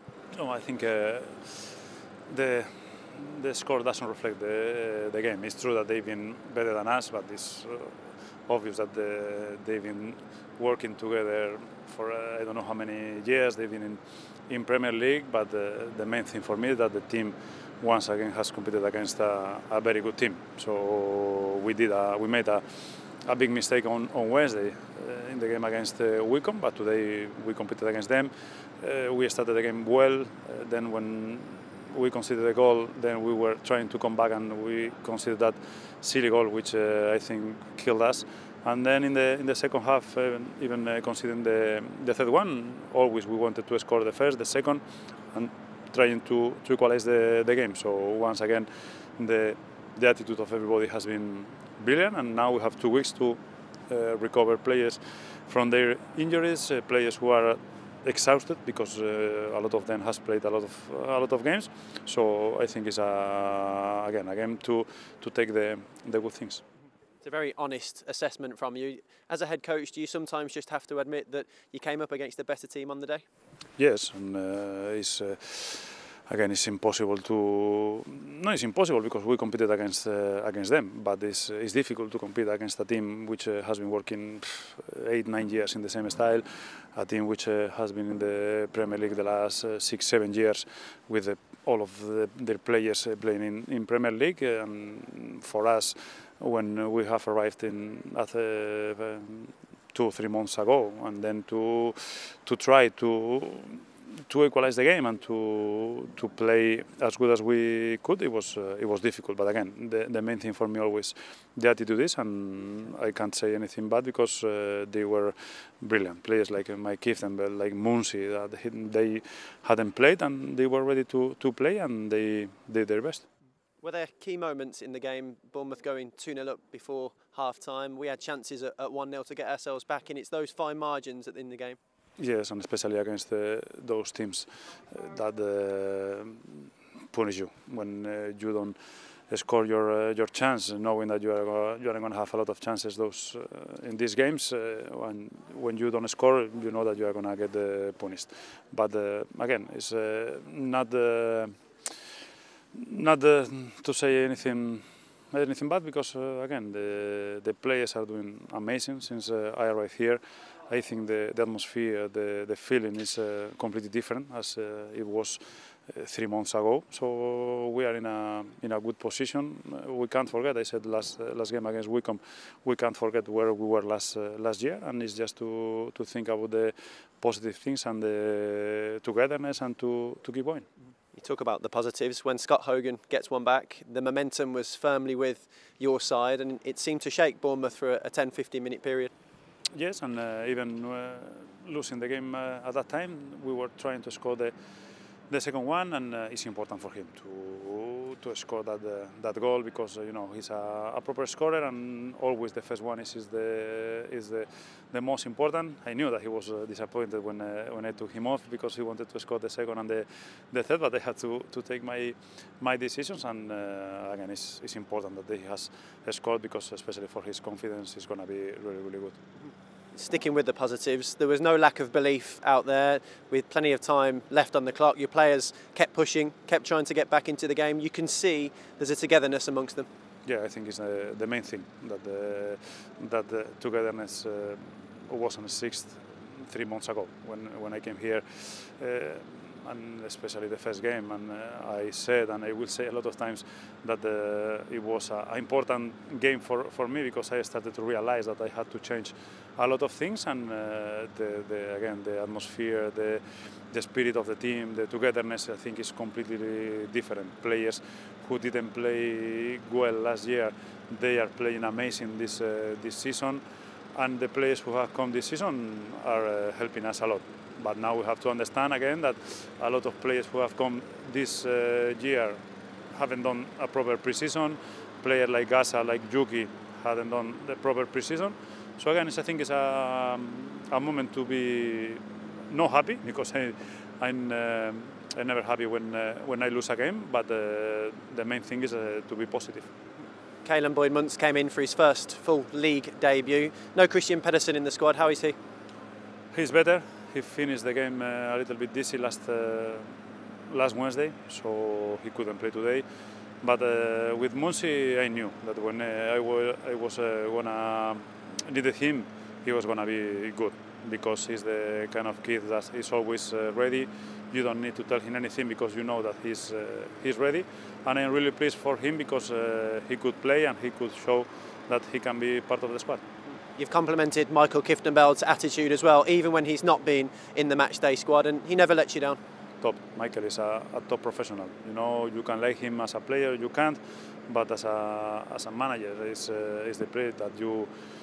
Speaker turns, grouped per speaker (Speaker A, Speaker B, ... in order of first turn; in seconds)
Speaker A: 0.3-66.6, 73.8-123.2, 132.2-138.8, 139.3-151.9, 152.7-180.7, 189.8-194.5, 195.3-219.2, 230.2-263.4, 263.9-289.7, 296.3-300.0, 300.5-302.9, 303.4-323.0, 329.6-337.7
Speaker B: 67.2-73.2, 123.8-131.8, 181.1-189.1, 219.9-229.9, 290.4-295.4, 323.5-329.2